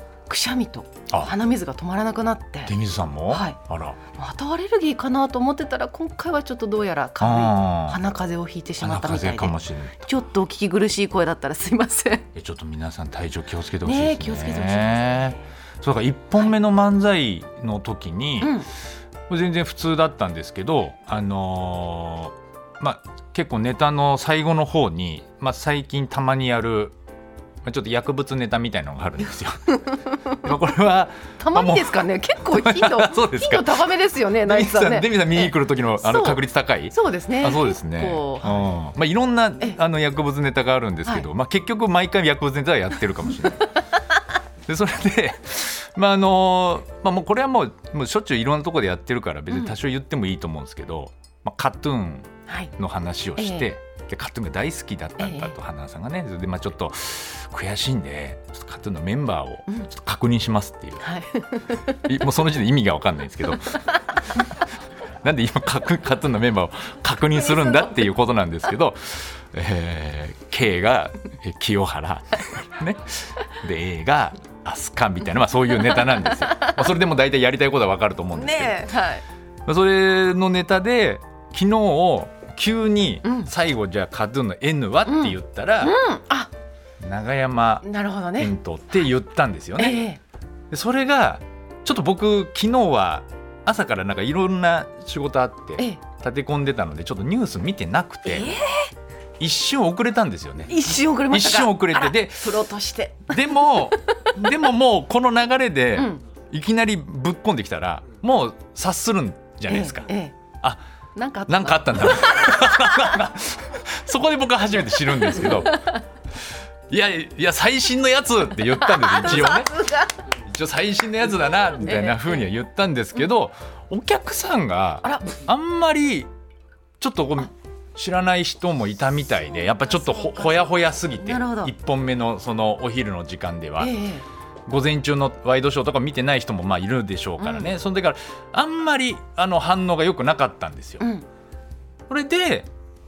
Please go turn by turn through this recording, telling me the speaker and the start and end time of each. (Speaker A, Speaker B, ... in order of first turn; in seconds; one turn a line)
Speaker A: 0.3-2.7
Speaker B: 2.6-4.0
Speaker A: 3.3-3.6
Speaker A: 4.1-12.2
Speaker B: 7.2-8.0
Speaker B: 8.8-10.1
Speaker B: 12.3-18.6
Speaker A: 13.8-15.4
Speaker A: 18.4-18.7
Speaker B: 19.3-26.9
Speaker B: 27.6-29.8
Speaker A: 29.7-30.4
Speaker B: 30.4-32.0
Speaker A: 31.4-38.7
Speaker B: 32.5-33.9
Speaker B: 34.4-43.7
Speaker B: 44.6-61.0
Speaker A: 53.4-53.7
Speaker A: 55.2-55.5
Speaker A: 61.0-62.1
Speaker B: 62.0-63.8
Speaker A: 63.7-64.0
Speaker B: 65.2-78.8
Speaker A: 67.3-68.1
Speaker A: 75.9-76.8
Speaker A: 78.3-79.2
Speaker B: 79.7-86.0
Speaker A: 83.2-83.5
Speaker A: 85.0-86.5
Speaker B: 87.0-87.9
Speaker A: 87.8-88.5
Speaker B: 88.4-90.0
Speaker A: 89.8-90.2
Speaker B: 90.7-98.6
Speaker A: 98.2-98.9
Speaker B: 99.4-102.6
Speaker A: 100.7-104.4
Speaker B: 103.3-110.1
Speaker A: 106.0-106.2
Speaker A: 109.7-110.3
Speaker A: 111.2-113.2
Speaker B: 111.5-115.8
Speaker A: 115.3-116.0
Speaker B: 116.9-119.8
Speaker A: 118.8-120.1
Speaker B: 120.4-126.3
Speaker A: 121.8-122.4
Speaker A: 125.0-125.4
Speaker B: 127.0-133.9
Speaker A: 129.6-131.7
Speaker A: 133.8-134.2
Speaker B: 134.7-141.1
Speaker A: 137.4-137.7
Speaker B: 142.1-142.7